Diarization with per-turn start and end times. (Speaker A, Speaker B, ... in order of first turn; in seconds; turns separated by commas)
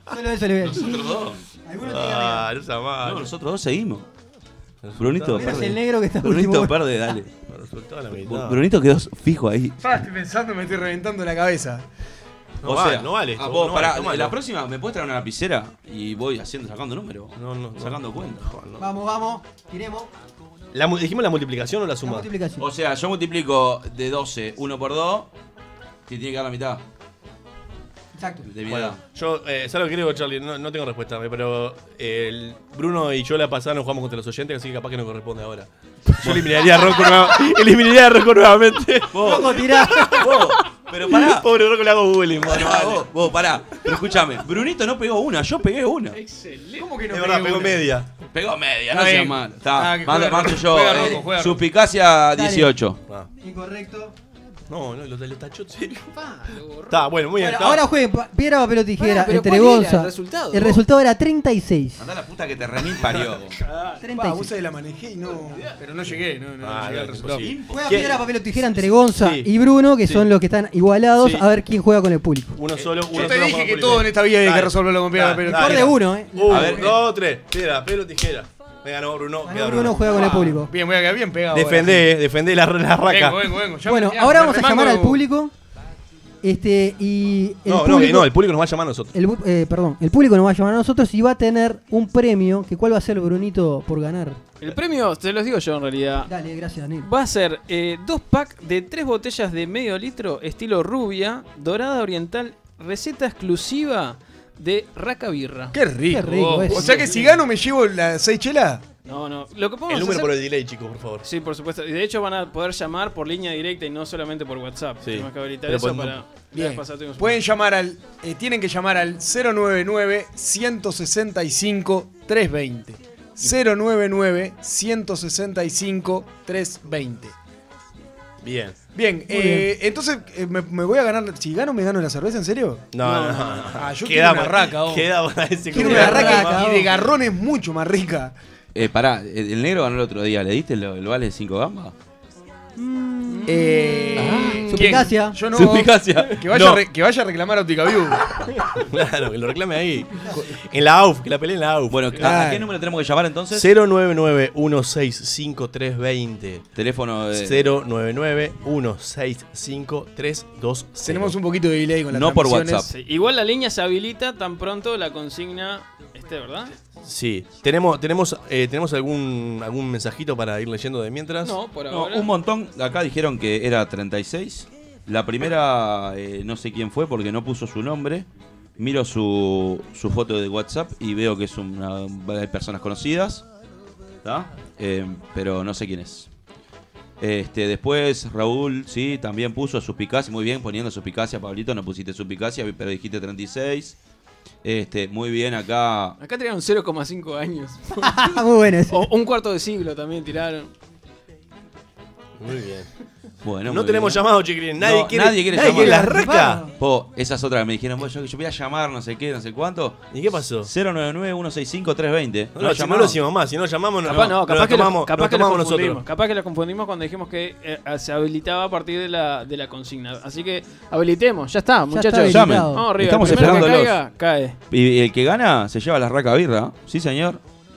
Speaker A: 0.1-2.5, Speaker B: 0.6-1.4, Speaker C: 1.8-3.3, Speaker B: 3.0-4.1, Speaker C: 4.8-5.7, Speaker B: 5.0-7.3, Speaker A: 5.3-7.0, Speaker C: 7.5-8.6, Speaker B: 8.2-9.8, Speaker D: 9.8-11.8, Speaker C: 12.6-14.4, Speaker B: 12.6-18.6, Speaker C: 17.4-18.8, Speaker A: 18.8-20.1, Speaker C: 20.7-22.3, Speaker A: 22.0-22.6, Speaker B: 22.6-25.3, Speaker B: 26.1-26.8, Speaker A: 28.1-28.5, Speaker B: 28.4-29.0, Speaker C: 28.7-43.1, Speaker B: 36.2-37.2, Speaker B: 39.1-41.5, Speaker A: 39.2-40.3, Speaker B: 42.4-46.2, Speaker E: 46.1-46.9, Speaker D: 46.8-47.9, Speaker C: 47.1-48.1, Speaker B: 48.3-53.0, Speaker D: 48.9-51.6, Speaker A: 52.3-52.7, Speaker A: 53.4-54.1, Speaker C: 54.7-56.1, Speaker E: 56.1-57.1, Speaker C: 56.9-57.8, Speaker A: 57.4-62.0, Speaker E: 59.0-60.8, Speaker B: 62.0-63.6, Speaker E: 63.6-64.0, Speaker A: 64.0-64.5, Speaker D: 64.1-67.5, Speaker E: 65.5-65.8, Speaker C: 66.6-67.5, Speaker B: 67.4-68.7, Speaker A: 67.7-72.6, Speaker C: 69.1-69.5, Speaker C: 72.5-80.4, Speaker D: 73.1-76.0, Speaker A: 75.5-77.0, Speaker B: 76.5-77.0, Speaker A: 79.4-80.7, Speaker D: 80.1-82.1, Speaker C: 81.5-83.6, Speaker D: 83.0-85.2, Speaker A: 83.8-85.5, Speaker A: 86.4-88.3, Speaker C: 87.7-89.1, Speaker A: 89.1-94.4, Speaker E: 94.6-96.3, Speaker A: 96.3-97.1, Speaker E: 97.0-105.7, Speaker D: 105.7-108.8, Speaker A: 106.1-107.1, Speaker E: 106.7-107.3, Speaker E: 109.0-110.3, Speaker C: 109.9-111.2, Speaker E: 111.2-117.4, Speaker C: 115.0-116.2, Speaker D: 116.5-127.3, Speaker C: 128.4-128.8, Speaker D: 128.9-132.8, Speaker A: 129.3-129.7, Speaker C: 132.9-136.7, Speaker E: 133.0-133.8, Speaker D: 133.7-135.1, Speaker A: 135.7-136.9, Speaker D: 135.7-138.3, Speaker B: 138.7-141.9, Speaker A: 142.8-145.4, Speaker D: 143.4-148.3, Speaker B: 144.2-144.8, Speaker B: 145.5-146.8, Speaker C: 148.8-152.3, Speaker A: 150.1-150.5, Speaker B: 151.9-153.7, Speaker D: 152.2-152.7, Speaker C: 153.5-156.7, Speaker B: 156.8-157.7, Speaker C: 157.3-161.4, Speaker D: 161.1-162.9, Speaker B: 162.1-162.9, Speaker E: 162.9-166.7, Speaker C: 167.0-171.6, Speaker E: 171.4-172.3, Speaker B: 171.9-178.3, Speaker B: 178.8-183.4, Speaker B: 184.2-186.3, Speaker B: 187.2-194.0, Speaker B: 194.6-196.2, Speaker E: 196.2-198.3, Speaker A: 198.0-199.1, Speaker E: 198.9-200.7, Speaker C: 202.4-202.9, Speaker B: 203.4-206.2, Speaker C: 203.7-206.6, Speaker A: 205.5-206.7, Speaker B: 206.8-210.1, Speaker C: 210.1-210.7, Speaker B: 210.6-213.2, Speaker C: 212.6-216.0, Speaker E: 214.1-224.6, Speaker A: 221.9-223.7, Speaker B: 222.3-224.0, Speaker B: 224.7-227.4